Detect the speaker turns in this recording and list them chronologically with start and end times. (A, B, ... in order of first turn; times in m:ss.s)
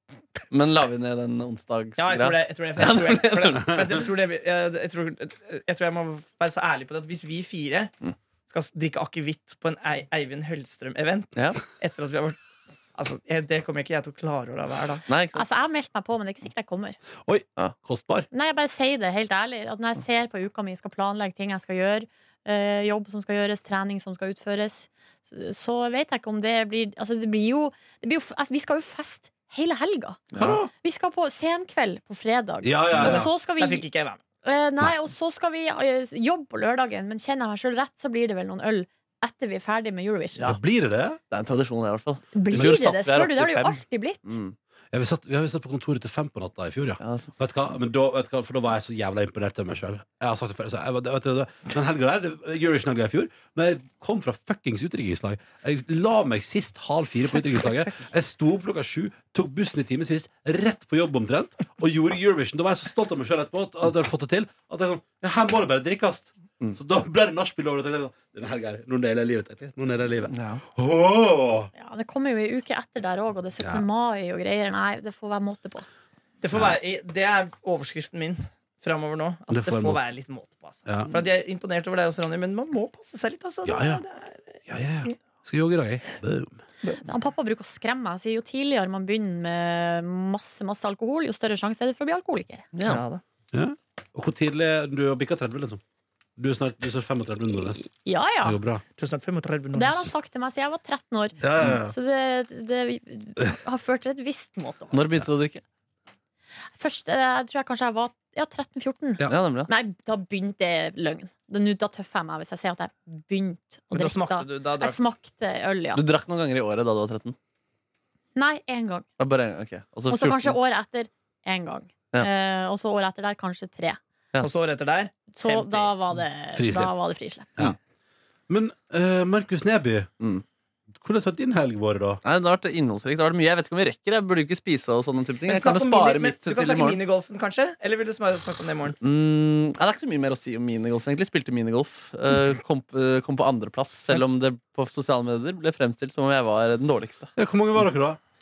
0:00.5-0:04.0 A
0:02.0-0:07.9 B
0:08.5-0:12.4 B
0:13.0-0:15.0 B
0:15.1-0:15.6 A
0:15.4-0:17.0 C
0:17.3-0:18.3 D
0:18.3-0:30.2 C
0:30.3-0:30.6 A
0:30.4-0:30.7 D
0:30.8-0:33.9 C
0:32.6-0:33.3 D
0:33.0-0:34.2 B
0:34.4-0:40.5 C
0:40.4-0:41.2 D
0:41.3-0:44.6 A
0:42.3-0:44.4 C
0:42.5-0:42.8 D
0:44.9-1:11.7 D
0:47.0-0:47.3 A
1:10.3-1:10.6 A
1:11.8-1:15.9 C
1:13.6-1:13.9 D
1:16.4-1:24.5 B
1:19.5-1:20.0 D
1:20.9-1:21.1 D
1:23.7-1:24.0 D
1:24.7-1:26.5 D
1:27.0-1:32.7 C
1:32.7-1:33.0 A
1:32.8-1:33.2 B
1:33.5-1:35.8 D
1:36.4-1:37.9 D
1:37.8-1:38.6 C
1:38.4-1:38.8 D
1:39.0-1:40.1 B
1:39.7-1:45.0 C
1:41.4-1:42.0 D
1:44.9-1:45.6 A
1:46.8-1:56.0 C
1:49.3-1:49.7 A
1:53.9-1:55.0 B
1:56.0-1:57.4 A
1:58.4-1:59.1 C
1:59.2-2:00.6 A
2:00.1-2:04.0 C
2:04.4-2:05.9 B
2:05.3-2:07.5 C
2:06.5-2:07.0 D
2:08.5-2:10.1 D
2:11.0-2:12.2 D
2:12.2-2:17.0 A
2:15.5-2:19.0 B
2:19.0-2:27.3 A
2:27.4-2:28.2 D